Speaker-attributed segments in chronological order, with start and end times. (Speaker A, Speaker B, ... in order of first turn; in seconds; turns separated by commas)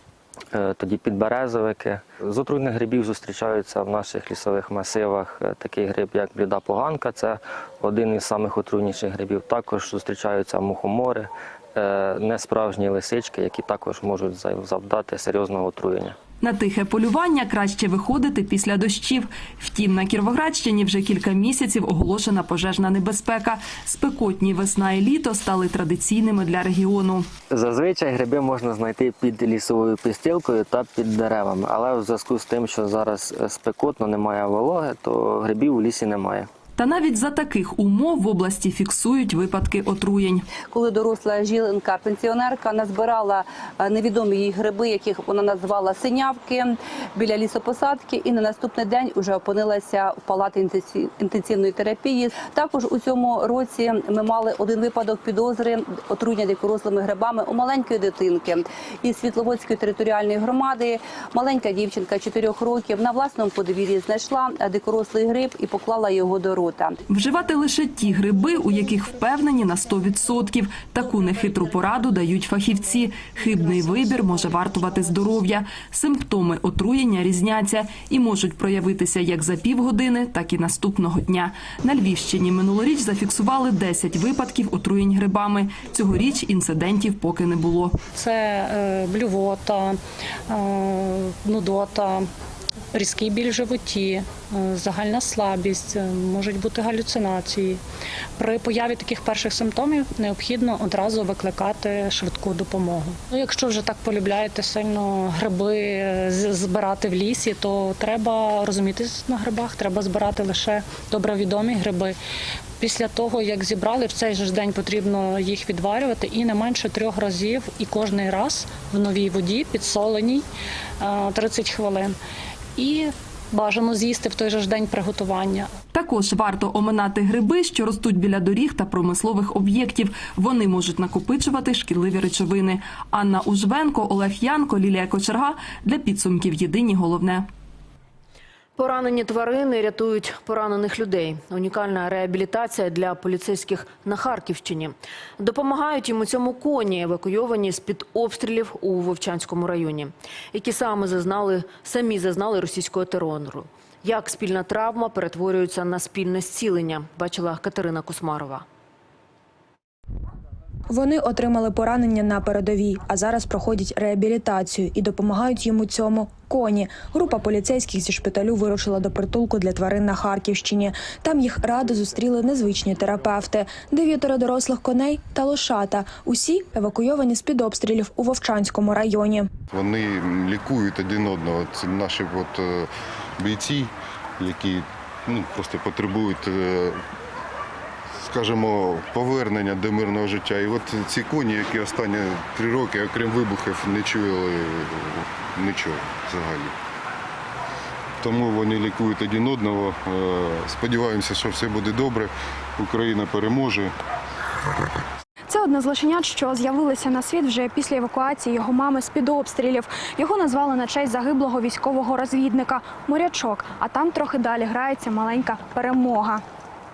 Speaker A: 0.5-16.1, Speaker B: 16.4-27.3, Speaker A: 27.5-36.5, Speaker B: 36.8-40.4, Speaker C: 40.7-66.9, Speaker B: 67.1-88.0, Speaker D: 88.1-90.0, Speaker D: 90.5-92.3, Speaker D: 92.9-97.8, Speaker D: 98.4-112.2, Speaker D: 112.8-120.4, Speaker D: 121.0-122.2, Speaker D: 122.8-125.7, Speaker B: 125.9-137.5, Speaker E: 138.8-158.6, Speaker F: 160.9-179.5, Speaker G: 179.7-182.9, Speaker G: 183.4-186.9, Speaker G: 188.2-196.7, Speaker G: 198.2-203.9, Speaker H: 205.5-216.4